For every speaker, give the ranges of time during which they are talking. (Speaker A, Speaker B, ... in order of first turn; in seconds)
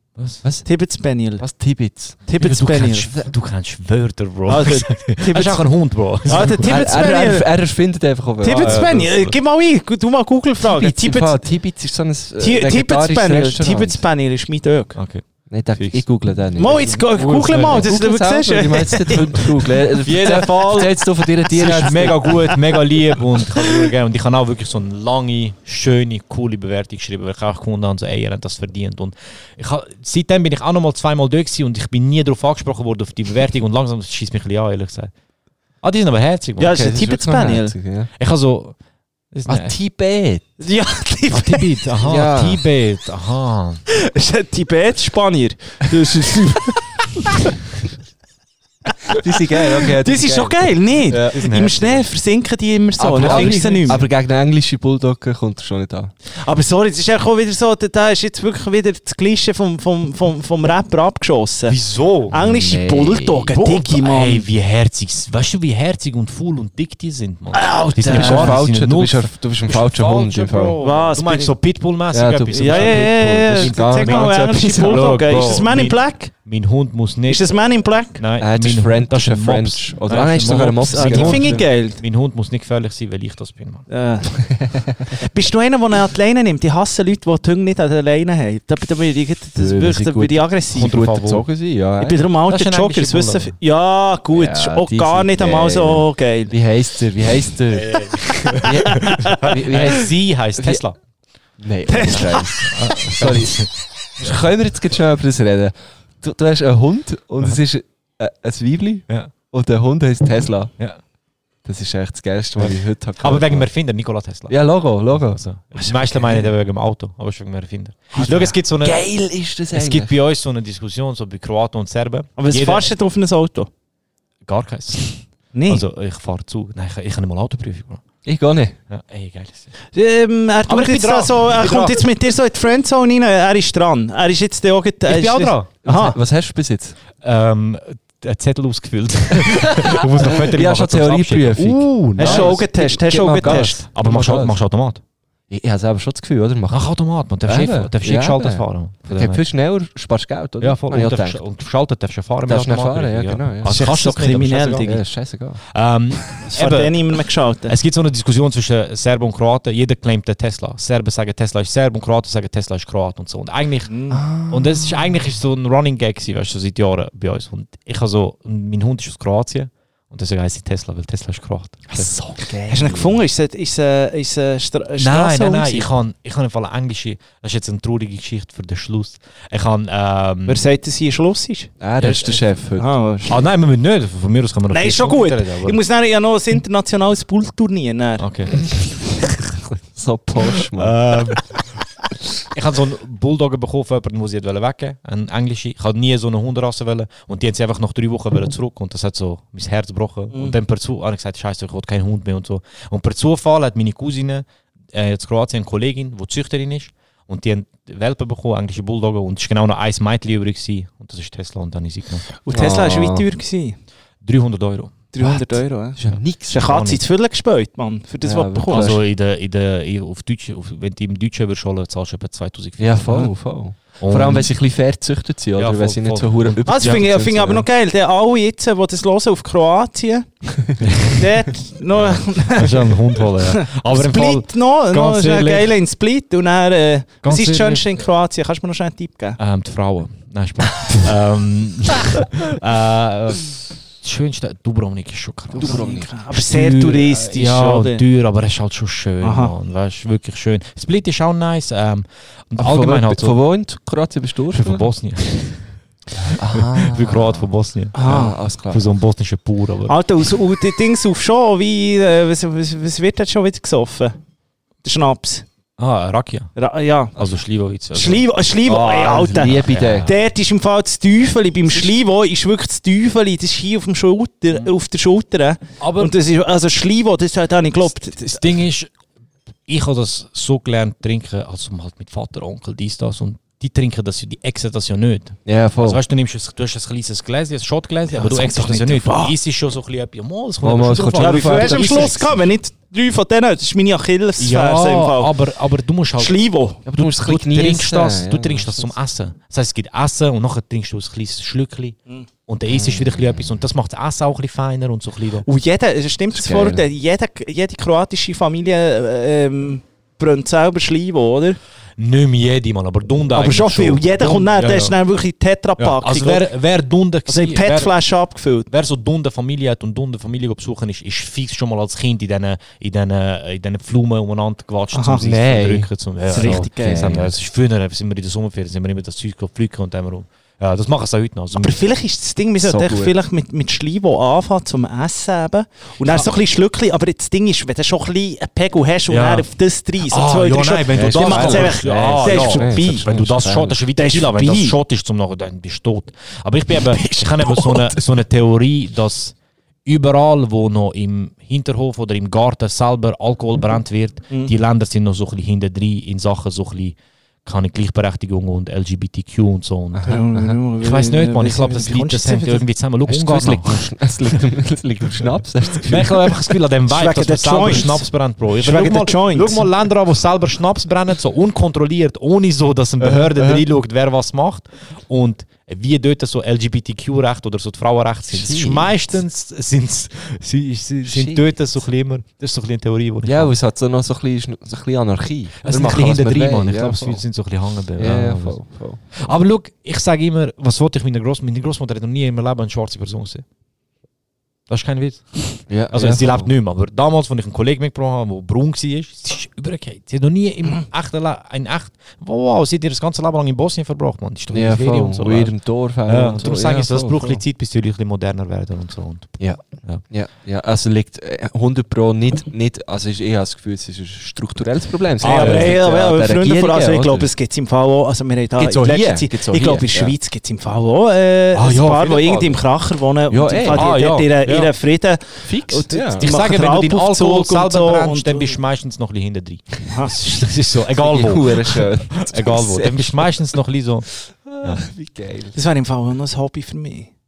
Speaker A: 0.1-0.4, 2.4-6.7, 8.4-9.3, 14.9-16.1, 16.7-18.0, 20.0-35.1, 35.8-36.8, 38.2-38.8, 39.3-39.7, 41.3-43.8, 51.3-52.0, 53.1-54.1, 61.7-62.5, 63.5-77.5, 78.2-83.9, 90.7-91.5, 92.5-93.5, 97.8-98.7, 99.4-101.0, 102.7-103.7, 112.6-119.0, 119.7-122.9, 124.4-128.0, 128.9-129.7, 130.7-132.0, 135.0-135.7, 137.2-145.0, 146.7-149.4, 150.6-154.9, 155.7-157.0, 157.7-163.9, 164.4-172.1, 175.0-180.6, 183.3-185.8, 188.2-189.1, 190.7-191.6, 192.5-212.3, 214.2-215.0, 216.1-217.0, 218.7-223.3, 224.0-224.5, 225.6-227.1, 230.8-231.2, 231.9-235.7, 237.2-237.8, 239.4-253.4, 254.5-255.7, 256.5-258.1, 258.7-259.9, 265.8-266.5, 267.1-268.2, 269.4-270.1, 275.8-276.1, 278.0-278.9, 279.7-292.4, 294.4-305.4, 312.0-314.9, 315.8-317.9, 318.7-331.8, 339.1-339.5, 340.0-349.3, 349.9-360.2, 360.8-364.3, 365.8-383.5, 385.6-388.6, 389.1-393.4, 394.7-410.0, 415.2-415.8, 423.7-424.7, 426.2-434.9
Speaker B: 0.6-1.4, 2.2-3.1, 4.5-5.7, 6.2-7.5, 8.4-11.4, 12.4-15.0, 16.6-19.6, 20.2-20.8, 36.6-37.7, 40.6-41.7, 43.9-47.4, 48.9-54.0, 56.4-61.8, 62.3-64.4, 67.5-68.6, 70.8-71.5, 72.5-76.3, 77.3-78.2, 80.9-82.0, 83.9-84.6, 85.1-91.0, 92.0-96.5, 98.5-99.5, 101.9-102.6, 115.8-116.4, 118.2-118.5, 122.4-123.7, 125.5-125.8, 129.9-136.2, 142.2-143.8, 153.6-155.0, 156.5-157.7, 163.9-164.2, 172.7-175.9, 180.4-183.4, 184.7-188.2, 212.4-213.8, 215.1-218.9, 226.7-230.3, 231.1-239.4, 245.6-248.0, 249.2-249.5, 257.9-258.3, 259.9-264.2, 264.8-265.4, 266.6-267.1, 267.9-278.5, 288.1-289.3, 291.1-295.3, 296.2-296.8, 305.4-311.6, 313.3-316.5, 317.3-318.7, 324.9-325.2, 326.3-327.0, 331.6-343.1, 343.9-344.8, 360.1-362.6, 366.9-368.1, 368.6-369.6, 415.2-428.6, 435.5-437.1
Speaker C: 1.4-2.2, 6.6-8.9, 10.6-14.0, 15.5-22.5, 36.6-38.1, 39.5-40.4, 42.0-42.6, 49.1-51.4, 53.0-56.1, 62.5-63.5, 68.0-70.8, 72.1-75.2, 78.4-81.7, 89.5-92.2, 94.3-100.8, 101.6-110.7, 111.6-113.7, 114.5-115.4, 118.2-120.1, 128.2-128.8, 135.8-136.9, 139.4-144.6, 145.5-146.9, 147.4-151.4, 152.5-153.9, 154.8-155.6, 164.1-165.1, 171.9-173.2, 181.8-182.9, 189.9-191.0, 212.5-213.2, 215.2-216.7, 218.2-219.0, 222.8-227.7, 245.5-246.1, 252.6-254.8, 256.2-257.5, 258.0-258.8, 268.6-270.1, 285.4-286.0, 290.6-292.3, 296.9-298.9, 302.7-303.5, 306.3-306.8, 325.2-327.3, 332.6-333.1, 340.9-343.8, 346.8-348.0, 359.9-360.5, 363.1-366.3, 373.0-373.6, 378.3-379.0, 381.0-381.4, 383.2-387.2, 388.0-389.0, 395.7-396.5, 404.5-407.4, 409.4-417.3, 418.6-420.1, 421.5-422.6, 423.3-423.9, 425.4-426.3, 430.9-433.4, 434.1-435.6